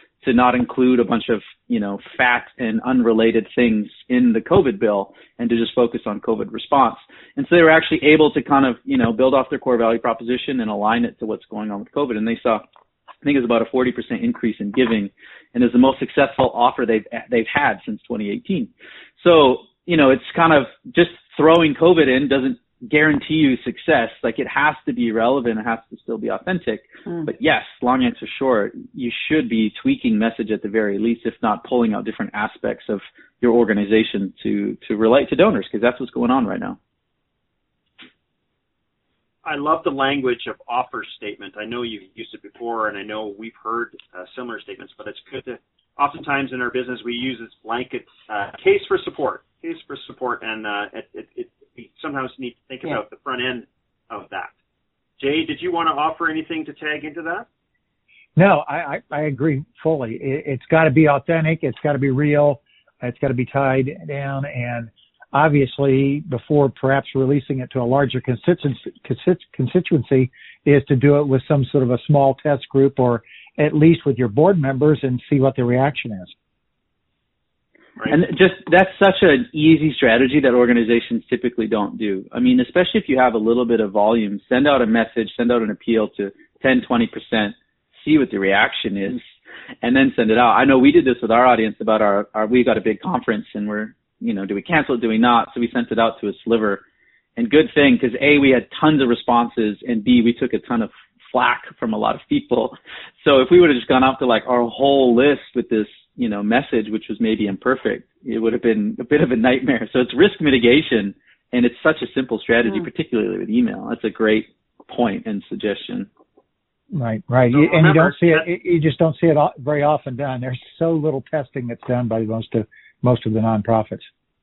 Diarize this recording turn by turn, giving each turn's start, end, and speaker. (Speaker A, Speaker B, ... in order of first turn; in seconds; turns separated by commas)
Speaker A: 0.2-12.6, Speaker A: 13.2-36.8, Speaker B: 39.4-54.5, Speaker B: 55.2-57.5, Speaker C: 58.4-76.3, Speaker A: 78.1-89.2, Speaker A: 89.8-96.8, Speaker A: 97.4-116.1, Speaker C: 116.9-124.1, Speaker B: 117.5-118.4